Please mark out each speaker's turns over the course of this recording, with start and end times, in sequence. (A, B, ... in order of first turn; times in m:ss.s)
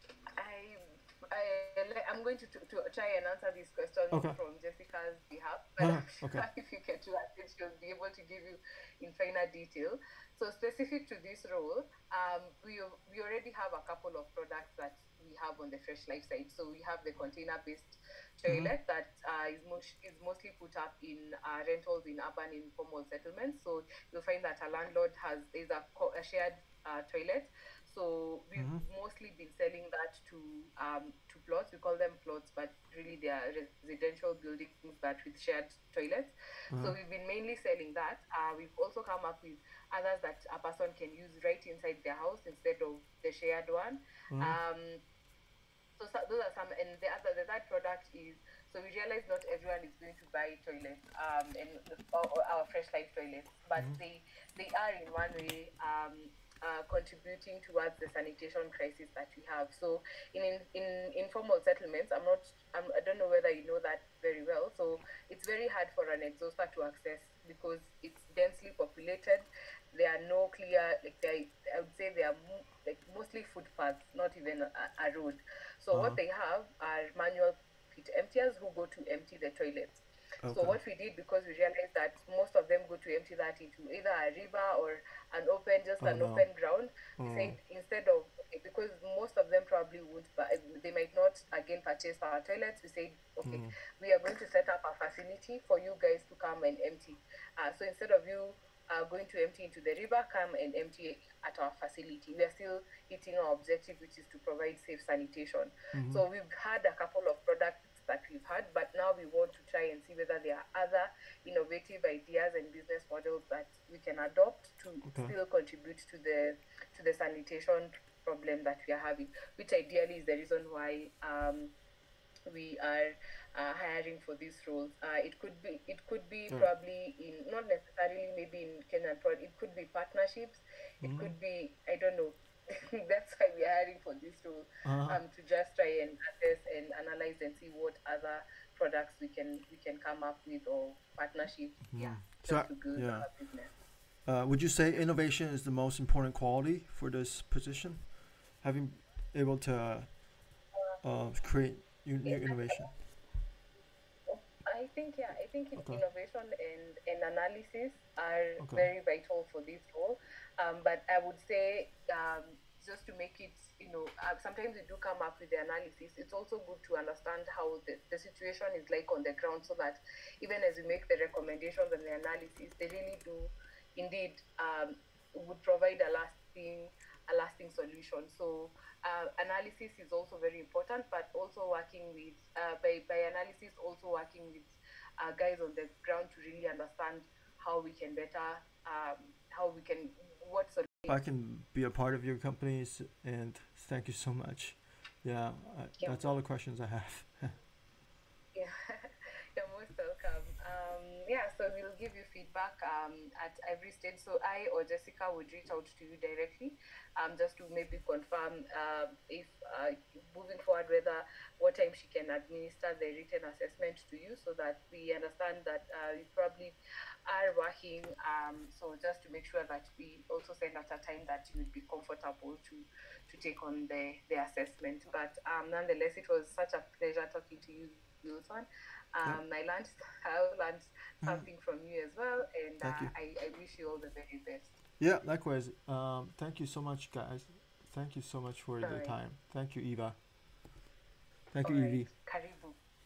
0:00.4-0:45.0 A
0:04.1-0:04.4 B
0:05.8-0:06.4 B
0:18.5-0:18.7 B
0:28.6-0:28.8 B
0:44.3-0:44.6 B
0:46.0-1:20.0 A
1:15.9-1:16.2 B
1:20.4-1:20.8 B
1:20.5-2:01.7 A
1:26.0-1:26.4 B
1:27.2-1:27.6 B
1:33.4-1:33.7 B
1:45.9-1:46.2 B
1:55.1-1:55.3 B
2:02.5-2:23.7 A
2:11.0-2:11.3 B
2:14.8-2:15.2 B
2:21.9-2:23.3 B
2:24.2-2:30.3 B
2:31.0-2:33.0 B
2:32.3-2:32.7 A
2:34.3-3:11.2 A
2:35.8-2:36.0 B
2:38.6-2:38.9 B
3:11.1-3:17.6 B
3:16.0-3:16.3 A
3:18.5-3:36.8 A
3:37.3-3:54.7 A
3:52.8-3:53.1 B
3:55.0-4:00.2 B
3:58.8-3:59.2 A
4:01.5-4:02.1 B
4:01.6-4:02.8 A